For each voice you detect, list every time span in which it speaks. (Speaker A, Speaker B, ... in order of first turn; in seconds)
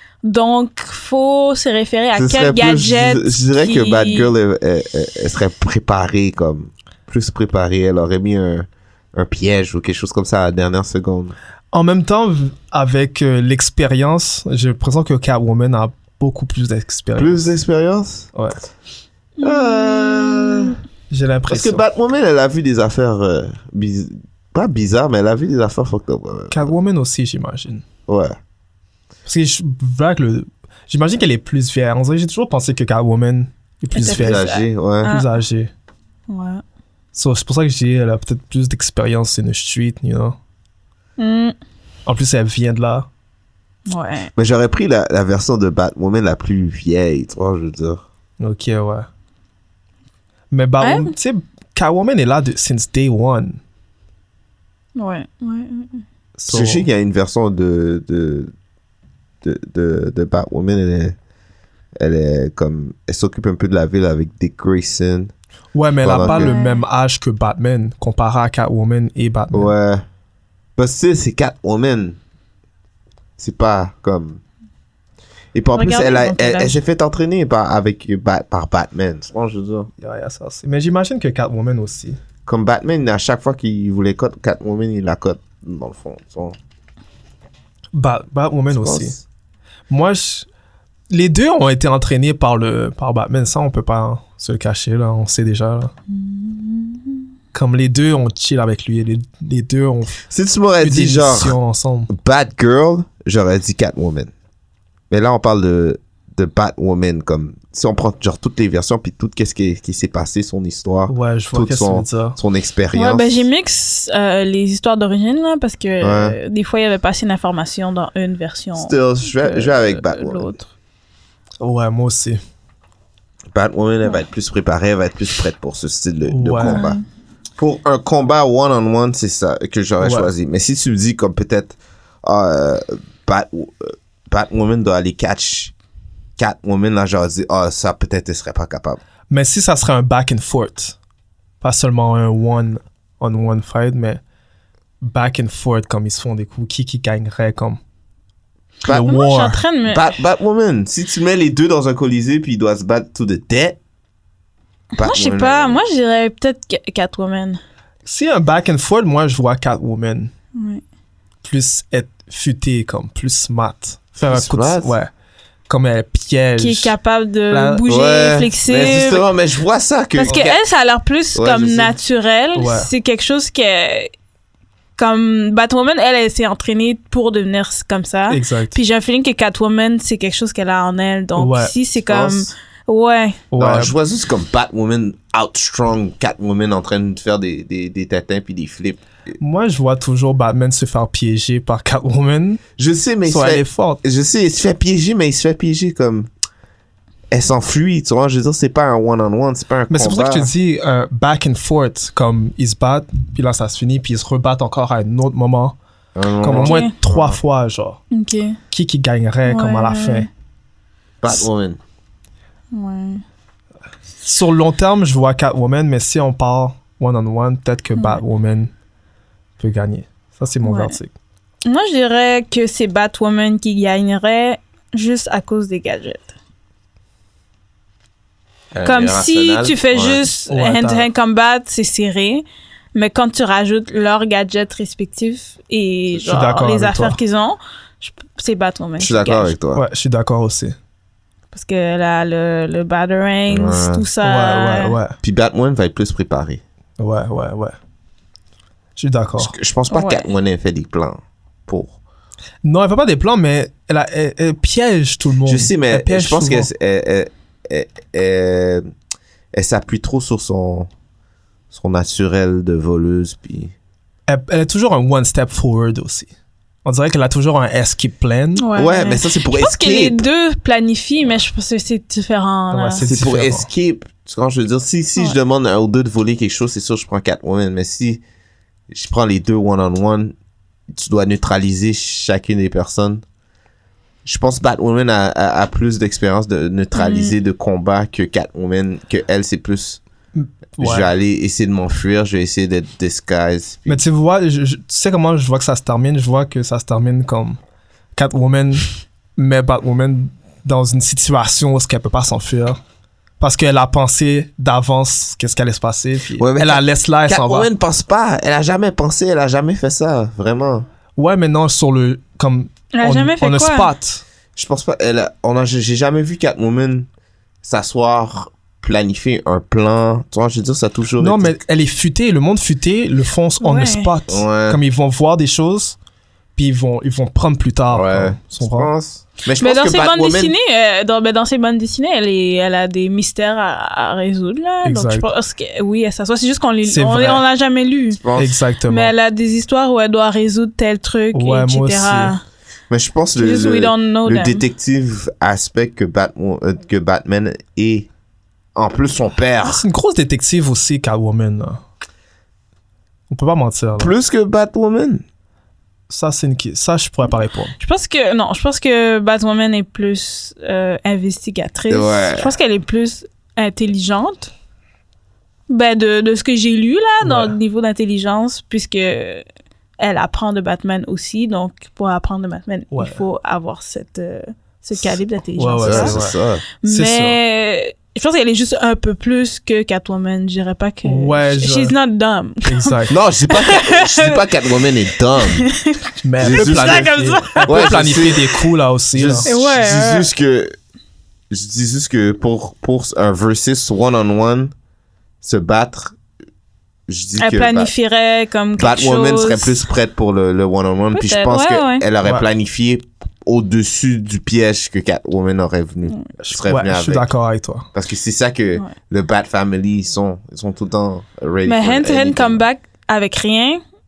Speaker A: 0.2-4.3, 19.4-20.8, 33.9-35.3, 36.3-36.6, 41.2-41.5, 43.9-44.3, 50.8-51.1, 55.0-56.0, 66.2-66.8, 75.7-76.8, 96.1-97.2, 112.9-120.7, 126.6-127.0, 148.9-150.2, 155.0-157.6, 160.6-160.8, 166.6-169.2, 170.1-174.1, 175.0-183.4, 206.5-206.9, 208.1-208.6, 209.4-210.3, 212.7-213.2, 217.9-218.2, 220.6-221.0, 221.7-226.3, 228.8-232.4, 232.9-239.5, 241.5-244.9, 249.9-250.3, 268.6-273.0, 286.9-287.3, 312.9-313.9, 323.6-324.1, 329.6-338.2, 338.9-342.4, 343.4-344.6, 357.8-364.5, 365.7-369.4, 370.0-376.2, 376.8-384.7, 385.4-388.2, 389.4-390.3, 397.4-399.8, 401.1-402.0, 411.6-413.8
Speaker B: 2.1-11.3, 17.1-18.3, 19.4-20.8, 21.5-26.7, 28.1-28.4, 34.0-35.1, 44.4-48.0, 56.5-58.5, 59.4-61.1, 62.0-65.3, 66.0-66.5, 69.5-70.0, 70.8-72.2, 73.4-74.4, 75.5-79.9, 82.5-86.6, 88.7-89.2, 100.3-101.6, 102.1-104.3, 105.1-113.4, 116.0-116.4, 118.8-120.5, 123.5-127.0, 127.6-135.7, 136.4-139.0, 149.9-153.8, 155.0-155.8, 164.3-164.9, 167.8-170.6, 171.3-171.9, 182.1-182.5, 183.6-189.3, 192.8-196.3, 197.3-200.5, 206.1-207.4, 211.2-211.8, 228.7-230.2, 239.0-239.8, 243.5-244.1, 245.2-246.6, 249.4-252.0, 255.4-258.9, 259.5-260.9, 261.7-263.7, 268.8-270.2, 273.1-278.2, 278.9-280.3, 280.9-283.2, 284.2-290.0, 290.8-294.0, 306.4-310.9, 314.6-317.1, 317.6-321.6, 324.3-324.8, 327.9-330.5, 338.1-338.6, 342.9-348.1, 348.8-349.8, 354.0-355.2, 361.9-362.6, 375.8-376.6, 383.1-385.7, 386.4-387.1, 387.6-388.6, 389.1-390.8, 391.5-394.7, 395.4-396.2, 397.1-397.9, 398.8-407.3, 407.9-412.6
Speaker C: 11.7-17.5, 21.1-21.8, 26.5-27.8, 29.2-34.4, 35.0-35.7, 37.1-40.4, 42.0-43.1, 48.4-49.1, 50.5-53.6, 56.4-56.8, 65.7-69.7, 80.0-82.2, 87.9-89.2, 89.9-90.5, 91.1-95.9, 97.5-100.2, 100.8-102.1, 111.1-112.4, 121.6-122.4, 126.3-126.8, 130.0-130.3, 139.3-140.9, 141.6-144.2, 145.0-147.8, 148.9-149.6, 158.0-160.3, 161.4-165.1, 165.7-166.9, 167.5-167.8, 170.3-170.5, 172.5-172.9, 178.3-178.8, 181.3-181.7, 183.5-183.9, 189.4-192.7, 193.3-194.0, 199.9-205.8, 206.4-208.0, 208.7-210.3, 214.2-218.7, 219.6-221.1, 230.5-231.1, 236.2-237.2, 239.7-240.8, 244.2-245.2, 247.0-247.7, 249.0-249.5, 252.6-256.7, 264.3-266.3, 266.8-268.6, 272.7-273.7, 290.3-291.1, 293.9-297.6, 298.1-302.8, 303.4-307.7, 311.2-314.2, 321.2-325.9, 326.6-328.9, 334.8-335.3, 336.8-337.4, 338.3-339.1, 341.3-342.3, 349.6-351.8, 353.3-354.1, 356.1-357.8, 367.2-367.6, 372.9-373.2, 375.6-377.4, 381.0-381.9, 382.6-383.1, 386.2-389.5, 406.4-407.9